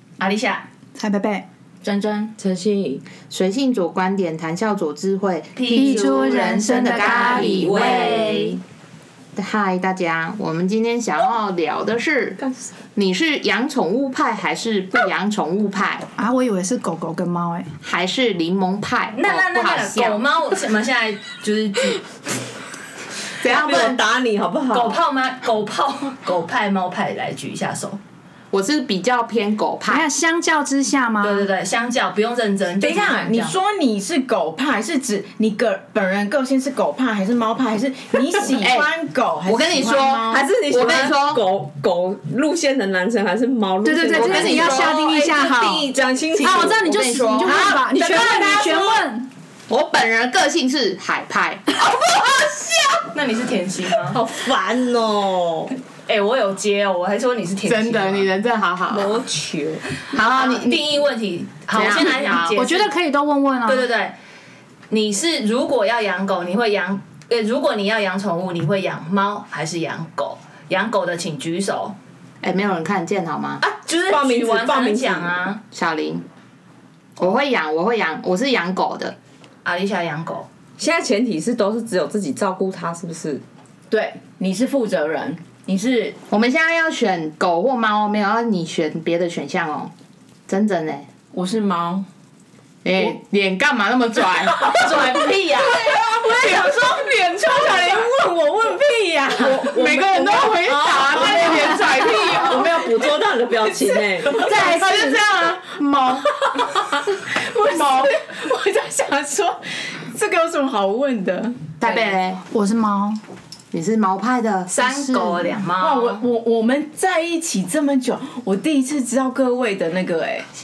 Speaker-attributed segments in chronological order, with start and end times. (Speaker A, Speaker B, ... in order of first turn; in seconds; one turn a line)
Speaker A: 0.2-0.7
Speaker B: 0.9-1.5
Speaker C: 1.8-2.4
Speaker D: 2.4-3.0
Speaker E: 3.2-8.6
Speaker A: 5.5-8.6
Speaker B: 5.7-8.3
Speaker C: 7.6-8.3
Speaker E: 9.4-12.4
Speaker E: 12.9-16.1
Speaker B: 16.2-17.7
Speaker E: 17.8-20.3
Speaker A: 19.1-22.0
Speaker E: 23.4-24.0
Speaker D: 23.4-25.0
Speaker A: 24.7-28.0
Speaker E: 28.5-30.1
Speaker B: 29.9-31.5
Speaker A: 31.2-33.6
Speaker C: 32.8-40.5
Speaker E: 38.6-38.9
Speaker E: 39.5-41.4
Speaker D: 40.3-47.1
Speaker B: 43.8-49.3
Speaker E: 44.1-45.0
Speaker E: 46.4-47.8
Speaker A: 47.4-49.0
Speaker E: 49.7-52.5
Speaker A: 52.0-52.3
Speaker A: 53.0-54.2
Speaker D: 54.1-55.8
Speaker A: 56.1-58.3
Speaker E: 57.6-59.2
Speaker D: 58.9-59.9
Speaker E: 60.1-60.9
Speaker A: 60.1-62.9
Speaker E: 61.7-62.6
Speaker B: 62.5-63.9
Speaker A: 63.7-64.1
Speaker A: 64.9-72.0
Speaker E: 72.4-73.6
Speaker A: 73.6-75.6
Speaker D: 74.0-75.5
Speaker E: 75.7-76.2
Speaker E: 77.2-79.2
Speaker A: 79.7-80.5
Speaker D: 80.8-83.4
Speaker C: 83.9-86.2
Speaker E: 86.3-89.9
Speaker E: 90.5-91.1
Speaker C: 91.3-92.1
Speaker E: 92.8-98.1
Speaker A: 94.7-95.8
Speaker C: 94.7-102.9
Speaker E: 99.4-102.9
Speaker D: 102.2-104.5
Speaker C: 103.6-105.2
Speaker E: 104.3-106.3
Speaker C: 106.3-112.1
Speaker E: 107.7-108.1
Speaker E: 111.8-112.4
Speaker B: 112.5-113.2
Speaker E: 113.7-115.7
Speaker A: 114.7-116.2
Speaker C: 115.8-120.5